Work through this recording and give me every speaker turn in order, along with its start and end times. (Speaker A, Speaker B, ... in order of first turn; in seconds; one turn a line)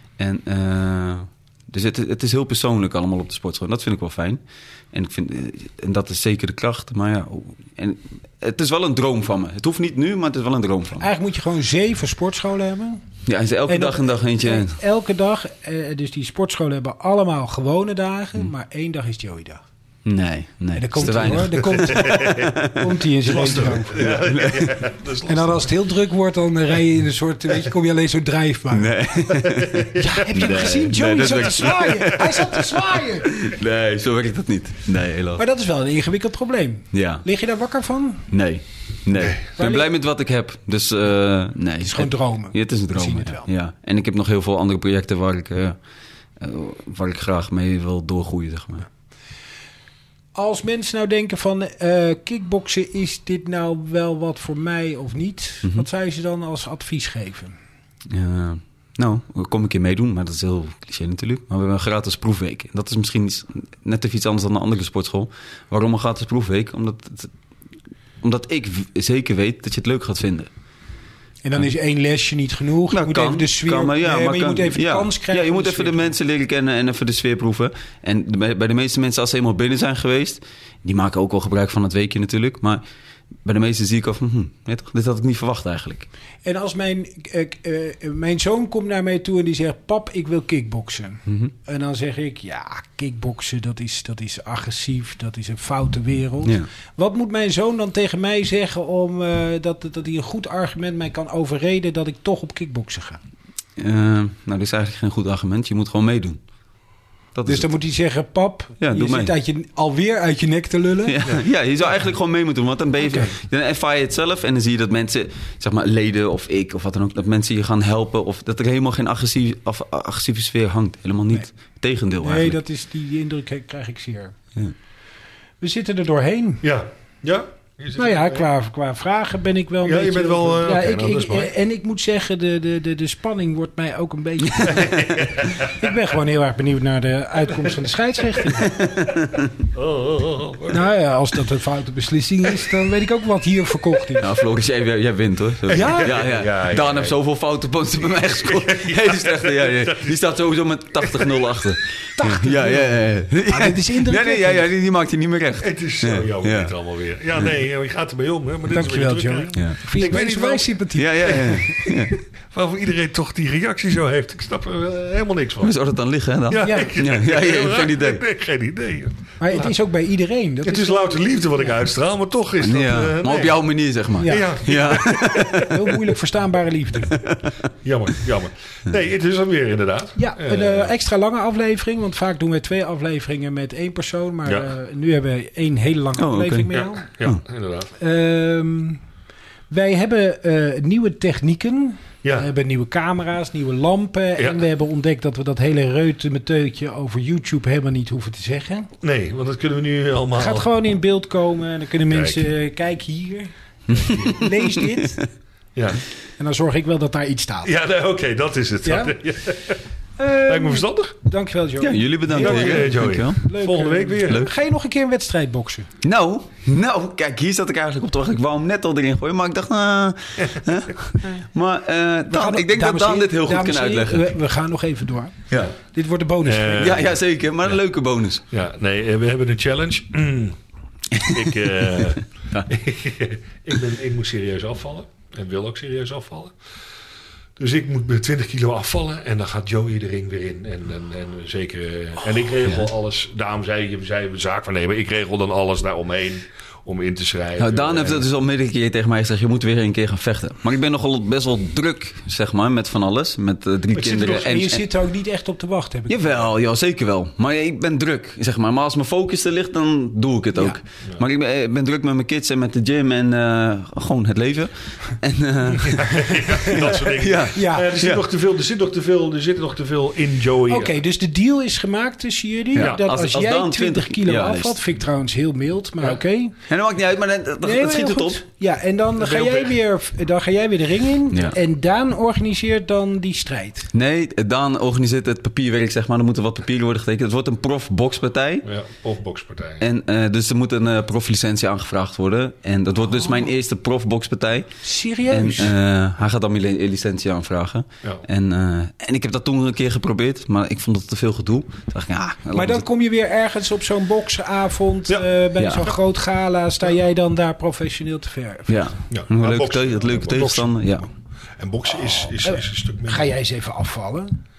Speaker A: 0.2-4.4
Speaker A: 4.9-11.1
Speaker B: 11.0-13.0
Speaker A: 13.2-14.8
Speaker B: 13.7-19.6
Speaker A: 20.0-22.9
Speaker B: 20.7-24.2
Speaker C: 21.6-22.5
Speaker C: 23.2-25.7
Speaker A: 24.2-24.8
Speaker B: 25.3-28.9
Speaker A: 28.7-35.4
Speaker C: 29.3-30.4
Speaker B: 29.9-33.3
Speaker B: 35.4-38.2
Speaker A: 36.9-37.2
Speaker A: 38.3-45.8
Speaker B: 39.6-39.9
Speaker B: 41.8-43.5
Speaker A: 46.4-48.9
Speaker B: 50.3-57.6
Speaker A: 58.1-67.3
Speaker A: 68.2-70.5
Speaker B: 71.4-76.1
Speaker A: 72.9-82.8
Speaker A: 83.4-86.1
Speaker B: 86.4-103.2
Speaker A: 91.3-91.5
Speaker A: 103.8-106.4
Speaker A: 107.3-107.7
Speaker B: 107.5-111.3
Speaker A: 108.8-109.3
Speaker A: 111.1-122.6
Speaker B: 113.0-113.3
Speaker B: 122.2-124.3
Speaker B: 125.6-126.6
Speaker C: 126.6-128.5
Speaker B: 128.0-138.8
Speaker C: 129.8-131.5
Speaker A: 134.6-135.2
Speaker C: 134.7-135.7
Speaker A: 138.7-139.5
Speaker C: 139.7-140.9
Speaker B: 140.7-144.3
Speaker A: 144.2-156.7
Speaker C: 145.7-147.2
Speaker B: 145.7-146.2
Speaker C: 148.0-150.4
Speaker C: 151.0-151.5
Speaker B: 152.2-154.6
Speaker C: 155.6-165.7
Speaker B: 158.7-161.8
Speaker A: 160.9-162.2
Speaker A: 165.6-168.2
Speaker C: 166.5-169.7
Speaker B: 166.6-166.9
Speaker B: 169.4-171.6
Speaker C: 170.6-173.6
Speaker A: 172.6-175.8
Speaker B: 174.2-174.6
Speaker C: 174.2-175.7
Speaker B: 175.5-177.2
Speaker A: 177.1-177.4
Speaker C: 177.8-180.9
Speaker B: 180.2-187.1
Speaker C: 184.4-184.7
Speaker A: 186.2-187.4
Speaker C: 186.7-187.9
Speaker B: 188.0-189.0
Speaker B: 189.7-198.9
Speaker C: 192.2-192.5
Speaker C: 199.0-200.7
Speaker B: 200.3-205.2
Speaker C: 202.1-202.4
Speaker A: 203.9-205.1
Speaker C: 203.9-204.3
Speaker C: 205.7-206.0
Speaker B: 206.4-207.7
Speaker C: 207.6-209.8
Speaker B: 208.8-209.1
Speaker B: 210.2-215.9
Speaker C: 210.5-211.1
Speaker A: 211.8-213.4
Speaker C: 212.3-214.5
Speaker A: 216.0-224.3
Speaker B: 222.3-227.0
Speaker C: 226.4-227.1
Speaker A: 226.8-228.4
Speaker C: 228.5-230.6
Speaker A: 231.1-231.4
Speaker C: 231.1-236.5
Speaker C: 237.6-248.2
Speaker A: 247.6-254.8
Speaker C: 253.9-254.4
Speaker B: 254.2-256.4
Speaker A: 256.1-266.4
Speaker C: 265.8-271.0
Speaker A: 267.1-268.2
Speaker B: 267.5-267.9
Speaker B: 270.7-276.5
Speaker C: 272.7-273.0
Speaker A: 272.7-274.8
Speaker A: 276.7-278.4
Speaker B: 277.6-283.9
Speaker C: 279.2-279.7
Speaker A: 281.3-281.6
Speaker A: 283.9-288.7
Speaker C: 288.6-289.8
Speaker A: 289.8-294.7
Speaker B: 294.8-295.7
Speaker A: 295.3-302.8
Speaker B: 302.5-308.9
Speaker A: 305.6-305.9
Speaker A: 308.7-311.1
Speaker C: 309.1-310.7
Speaker C: 311.6-313.3
Speaker B: 311.9-314.4